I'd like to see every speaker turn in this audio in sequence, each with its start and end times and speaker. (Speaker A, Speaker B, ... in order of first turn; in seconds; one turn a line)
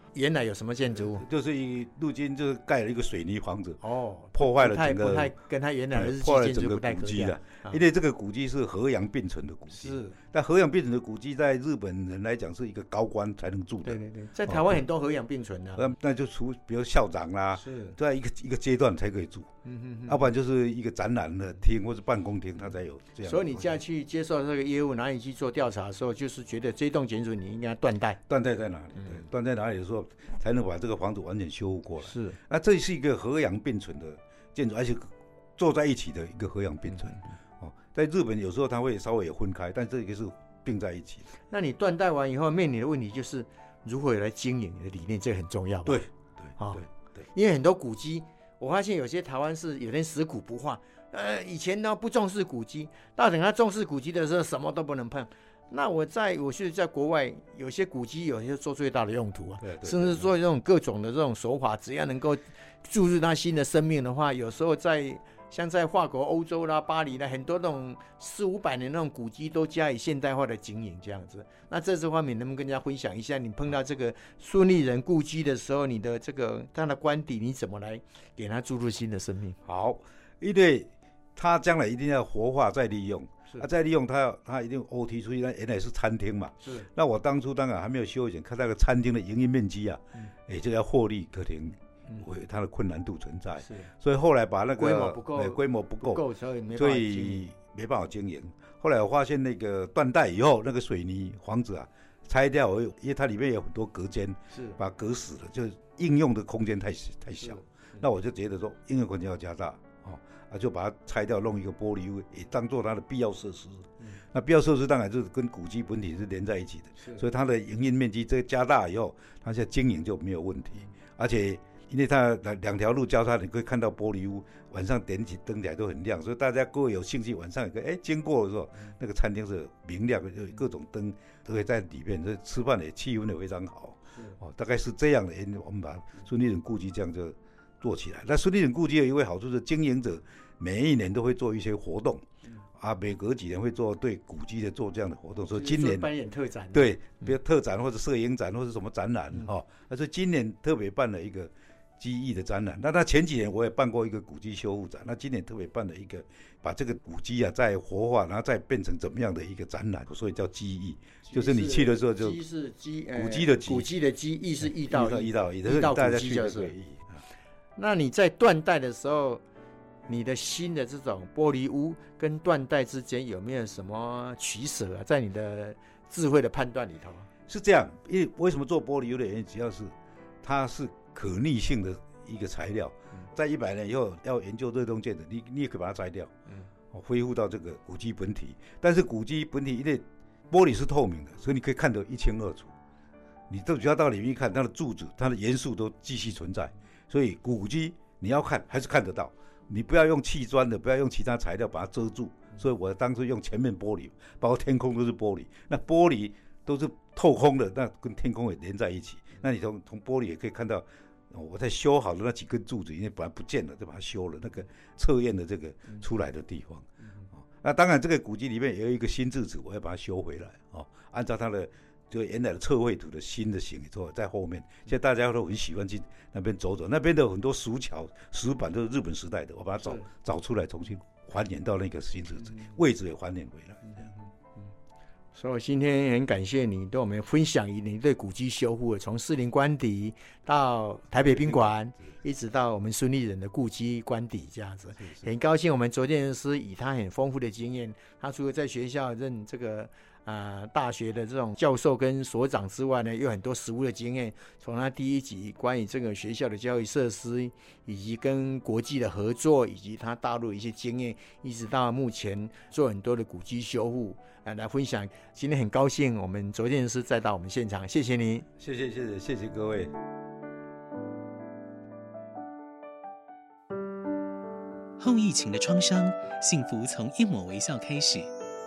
Speaker A: 0.1-1.2
Speaker B: 0.9-5.3
Speaker A: 3.8-7.8
Speaker B: 5.9-14.8
Speaker A: 9.7-10.2
Speaker A: 13.8-15.9
Speaker B: 15.8-19.5
Speaker A: 17.5-18.0
Speaker A: 19.6-20.3
Speaker B: 20.1-23.8
Speaker A: 23.2-28.2
Speaker B: 28.3-41.3
Speaker A: 29.0-29.2
Speaker A: 32.0-32.4
Speaker A: 41.5-46.0
Speaker B: 45.9-47.2
Speaker A: 46.6-79.6
Speaker B: 59.6-60.3
Speaker B: 79.7-142.2
Speaker A: 86.6-86.9
Speaker A: 93.6-93.9
Speaker A: 94.8-97.5
Speaker A: 104.5-104.8
Speaker A: 107.4-108.1
Speaker A: 117.0-117.2
Speaker B: 142.8-146.1
Speaker A: 145.5-147.2
Speaker B: 146.7-162.4
Speaker A: 161.3-166.7
Speaker B: 163.1-163.9
Speaker B: 164.6-167.2
Speaker A: 167.8-169.4
Speaker A: 170.1-177.3
Speaker B: 177.5-186.3
Speaker B: 186.9-192.7
Speaker B: 193.5-234.1
Speaker A: 232.4-232.8
Speaker A: 233.9-234.7
Speaker A: 235.3-268.5
Speaker B: 241.2-241.8
Speaker B: 245.0-245.3
Speaker B: 268.6-269.9
Speaker C: 275.0-278.3